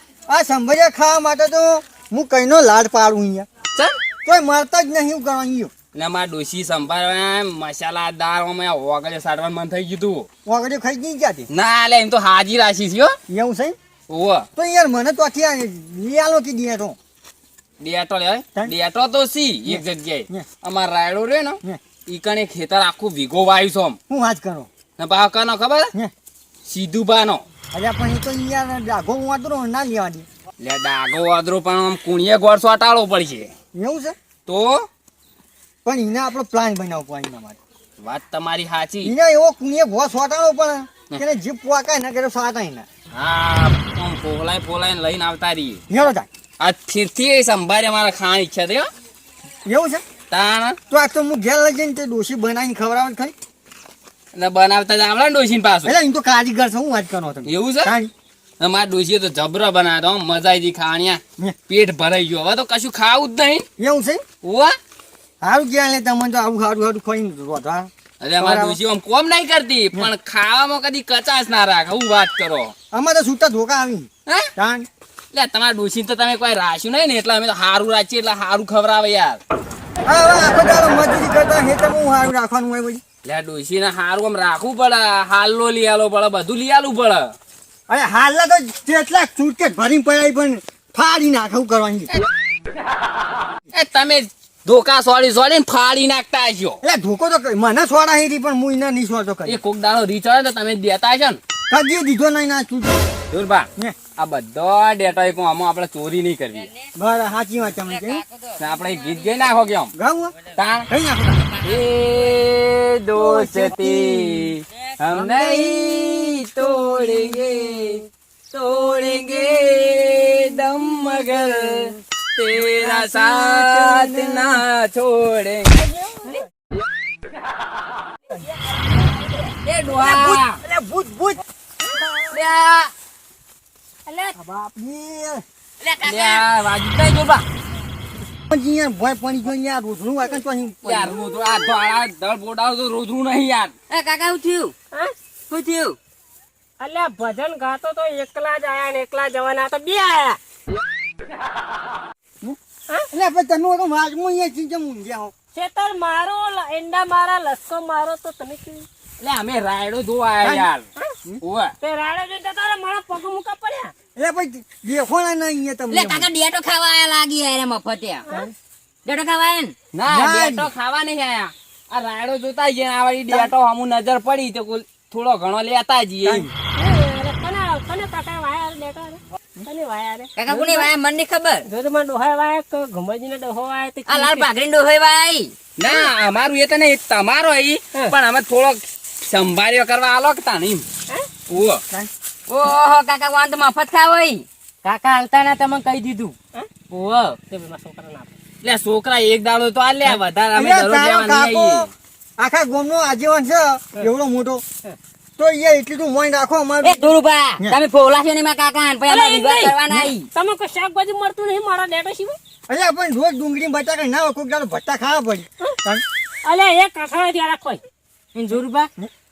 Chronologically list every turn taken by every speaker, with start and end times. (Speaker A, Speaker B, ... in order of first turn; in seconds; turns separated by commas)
Speaker A: 0.3-3.5, Speaker A: 4.2-5.7, Speaker B: 5.9-10.3, Speaker A: 10.4-11.5, Speaker B: 11.5-13.2, Speaker A: 13.3-13.8, Speaker B: 14.1-14.5, Speaker A: 14.6-17.0, Speaker B: 17.8-24.0, Speaker A: 19.7-20.5, Speaker A: 24.1-24.7, Speaker B: 25.0-25.9, Speaker B: 26.7-27.4, Speaker A: 27.7-30.3, Speaker B: 30.6-33.5, Speaker A: 33.7-34.2, Speaker B: 34.5-34.9, Speaker A: 35.9-37.6, Speaker B: 38.0-39.1, Speaker A: 39.0-42.9, Speaker B: 43.1-45.8, Speaker A: 45.9-46.3, Speaker B: 46.6-48.9, Speaker A: 49.7-50.0, Speaker B: 50.3-50.8, Speaker A: 50.9-53.4, Speaker B: 54.3-55.9, Speaker A: 55.9-58.1, Speaker B: 57.5-57.9, Speaker B: 58.6-63.6, Speaker A: 63.8-64.2, Speaker B: 64.4-64.8, Speaker A: 65.4-68.8, Speaker B: 68.2-72.7, Speaker A: 72.9-74.9, Speaker B: 75.3-79.4, Speaker A: 80.1-83.0, Speaker B: 83.2-87.3, Speaker A: 87.9-92.1, Speaker B: 93.7-96.8, Speaker A: 96.8-99.6, Speaker B: 99.5-101.4, Speaker A: 101.7-103.1, Speaker B: 103.3-106.7, Speaker C: 106.5-106.9, Speaker A: 107.0-108.2, Speaker C: 107.9-109.5, Speaker B: 108.6-109.9, Speaker A: 109.9-110.3, Speaker B: 110.6-110.9, Speaker A: 110.9-111.4, Speaker C: 111.4-112.1, Speaker B: 111.6-125.8, Speaker A: 113.2-114.4, Speaker A: 122.5-124.6, Speaker C: 128.6-129.5, Speaker B: 129.6-130.6, Speaker A: 129.9-132.4, Speaker C: 132.3-132.9, Speaker D: 134.1-134.3, Speaker A: 134.4-135.4, Speaker C: 135.8-136.5, Speaker B: 136.0-137.4, Speaker A: 138.5-141.2, Speaker B: 140.8-143.7, Speaker C: 143.9-144.7, Speaker C: 145.5-146.0, Speaker D: 146.8-150.4, Speaker A: 153.1-155.3, Speaker D: 155.5-158.9, Speaker B: 159.2-160.9, Speaker A: 160.4-160.7, Speaker B: 161.4-161.7, Speaker D: 161.8-163.9, Speaker A: 164.2-166.3, Speaker C: 165.9-168.3, Speaker C: 169.1-169.8, Speaker B: 169.9-176.5, Speaker A: 170.1-170.7, Speaker A: 176.2-176.5, Speaker D: 176.8-180.9, Speaker C: 180.4-181.7, Speaker D: 181.7-184.5, Speaker C: 184.1-185.5, Speaker B: 185.8-190.9, Speaker B: 191.5-191.8, Speaker C: 192.5-194.4, Speaker E: 194.8-196.3, Speaker E: 196.9-197.4, Speaker D: 197.5-198.4, Speaker B: 198.6-201.9, Speaker A: 200.1-204.6, Speaker A: 205.4-207.8, Speaker C: 206.8-210.3, Speaker D: 209.1-209.8, Speaker D: 210.3-212.4, Speaker A: 212.7-216.0, Speaker D: 216.4-217.8, Speaker E: 218.3-218.9